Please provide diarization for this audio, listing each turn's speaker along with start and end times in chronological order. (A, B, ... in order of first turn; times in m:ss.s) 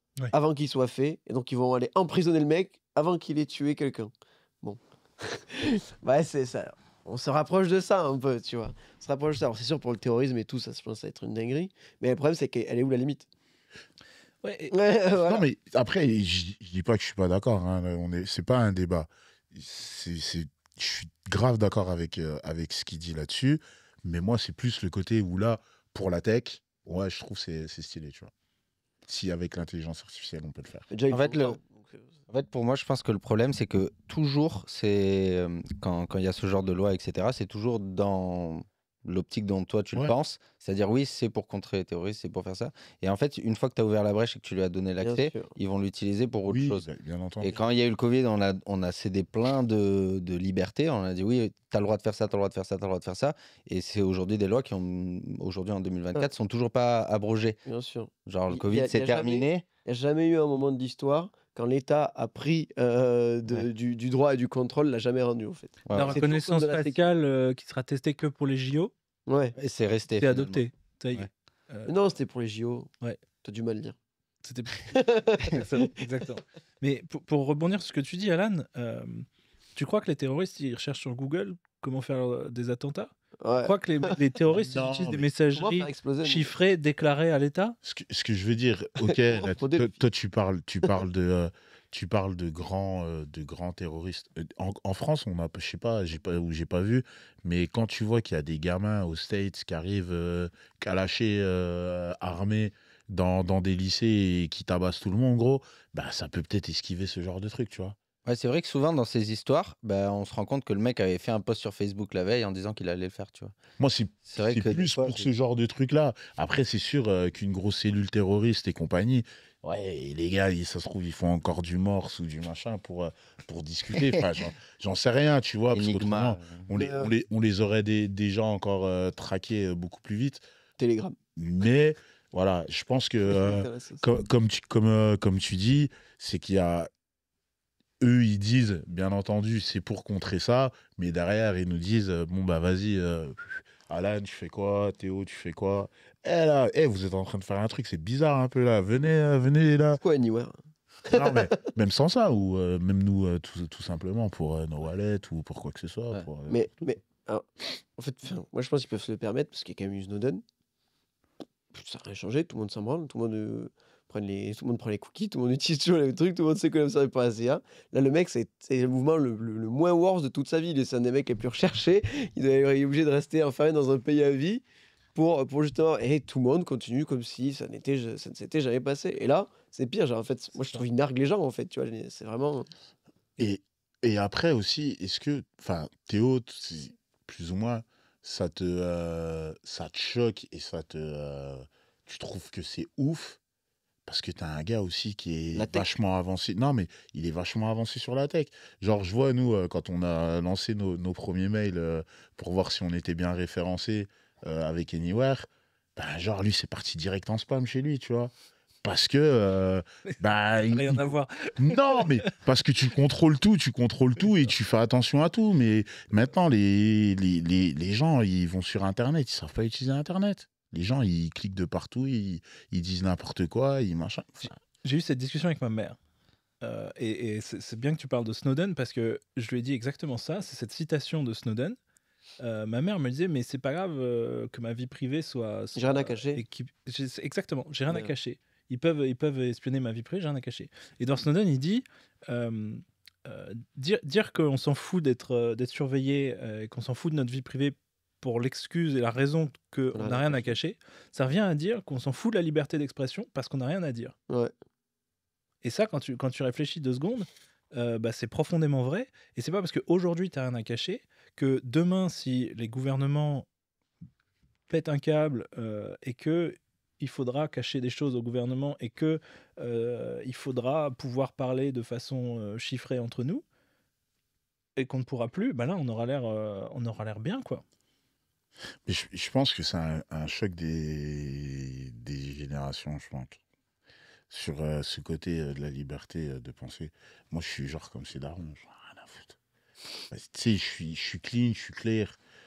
0:00.3-0:13.3 A
0:14.4-0:14.7 B
0:14.7-0:15.4 A
0:15.2-0:28.3 C
0:29.1-0:30.9 C
0:30.9-0:32.0 A
0:31.1-0:31.6 D
0:32.3-0:46.9 D
0:45.0-0:45.5 A
0:46.5-0:47.6 C
0:47.4-0:57.6 D
0:57.6-1:07.0 A
0:58.2-0:59.6 D
1:05.8-1:06.2 D
1:05.9-1:08.9 B
1:09.3-1:09.5 A
1:09.6-1:11.3 D
1:10.2-1:11.9 B
1:11.9-1:12.9 A
1:13.4-1:14.0 A
1:14.4-1:27.8 B
1:14.9-1:15.9 A
1:23.4-1:24.1 A
1:24.5-1:25.3 C
1:25.5-1:26.5 A
1:27.8-1:48.0 C
1:29.0-1:29.9 A
1:48.2-1:53.5 D
1:53.8-2:10.4 C
1:54.2-1:55.2 D
2:05.7-2:06.7 D
2:06.7-2:07.1 A
2:10.8-2:11.2 A
2:11.4-2:16.9 C
2:13.3-2:14.0 A
2:18.0-2:30.0 C
2:30.0-2:31.5 A
2:31.1-2:36.6 C
2:36.5-2:40.4 A
2:41.7-2:54.6 A
2:55.1-3:02.7 A
3:03.4-3:13.4 C
3:14.0-3:28.3 C
3:15.6-3:15.8 A
3:28.8-3:31.0 C
3:30.7-3:32.3 B
3:31.6-3:44.5 C
3:44.8-3:46.0 B
3:46.6-3:51.8 B
3:52.4-4:14.1 B
3:55.8-3:56.4 A
4:09.9-4:10.5 A
4:15.6-4:23.5 B
4:24.7-4:33.4 B
4:34.8-4:37.6 B
4:38.8-4:43.4 C
4:44.3-4:49.4 C
4:50.1-4:52.2 C